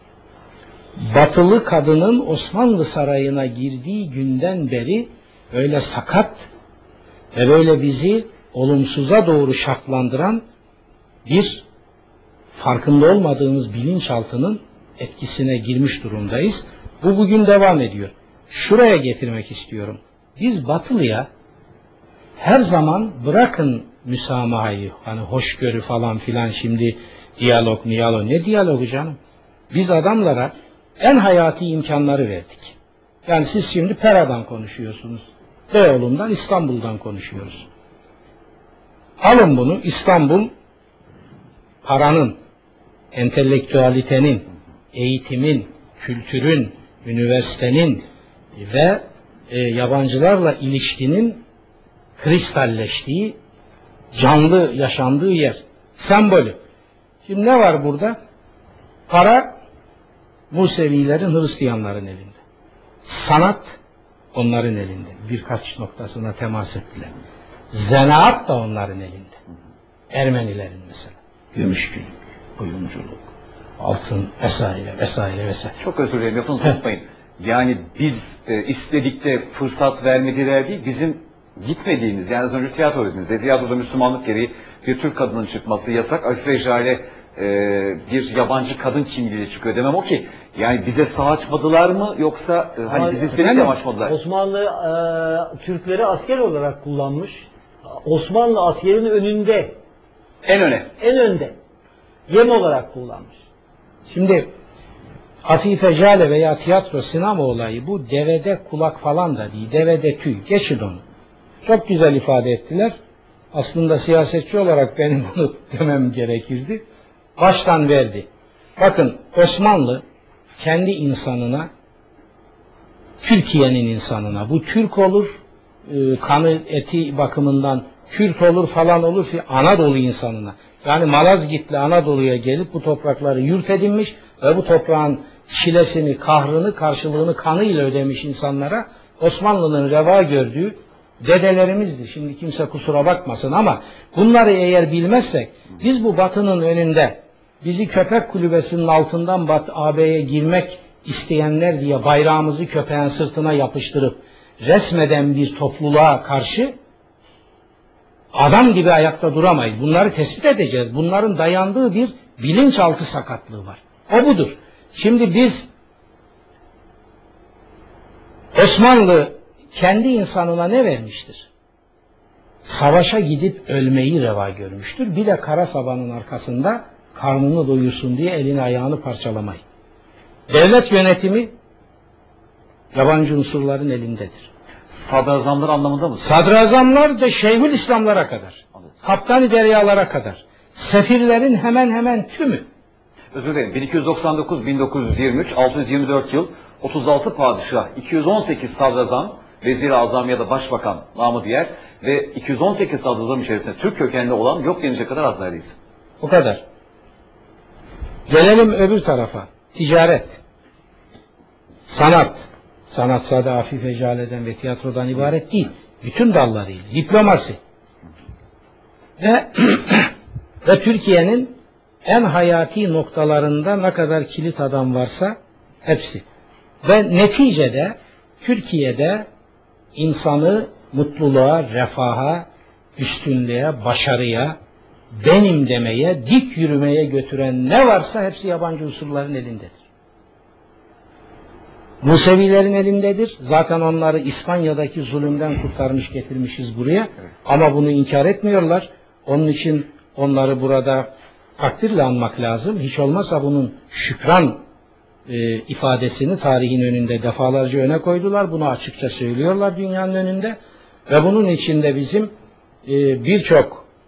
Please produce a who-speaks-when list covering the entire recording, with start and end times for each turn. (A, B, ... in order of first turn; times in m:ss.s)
0:01.0-0:06.4 A
0:07.3-0:10.4 A
0:11.2-0:11.6 A
0:12.6-0:21.3 A
0:22.4-0:29.2 A
0:29.7-0:32.7 A
0:33.2-0:37.6 A
0:39.2-0:40.5 A
0:41.8-0:42.4 A
0:43.1-0:48.0 A
0:48.6-0:51.4 A
0:52.2-0:53.4 A
0:54.1-0:56.6 A
0:57.2-0:58.2 A
0:59.1-0:59.5 A
1:00.5-1:02.4 A
1:03.0-1:03.7 A
1:04.3-1:07.1 A
1:07.7-1:09.4 A
1:10.1-1:13.2 A
1:13.8-1:15.8 A
1:15.8-1:34.1 B
1:32.9-1:39.8 C
1:33.3-1:33.7 A
1:40.4-1:40.9 B
1:41.0-1:41.5 C
1:42.3-1:43.4 C
1:44.1-1:44.5 A
1:45.4-1:51.0 A
1:51.6-1:52.9 A
1:53.5-1:56.8 A
1:57.4-2:00.0 A
2:00.6-2:01.7 A
2:03.2-2:05.3 A
2:05.8-2:36.7 A
2:38.3-2:45.7 A
2:48.5-2:51.5 A
2:52.6-2:59.6 A
3:00.5-3:01.5 A
3:02.9-3:04.5 A
3:05.0-3:06.4 B
3:06.2-3:12.6 A
3:13.3-3:25.7 B
3:26.2-3:26.6 A
3:28.3-3:30.4 A
3:31.9-3:37.6 A
3:39.2-3:40.1 A
3:40.6-3:46.2 A
3:46.8-3:49.3 A
3:49.9-3:54.6 A
3:55.1-3:59.8 A
4:02.0-4:14.6 A
4:15.3-4:20.6 A
4:21.1-4:22.3 A
4:22.8-4:23.8 A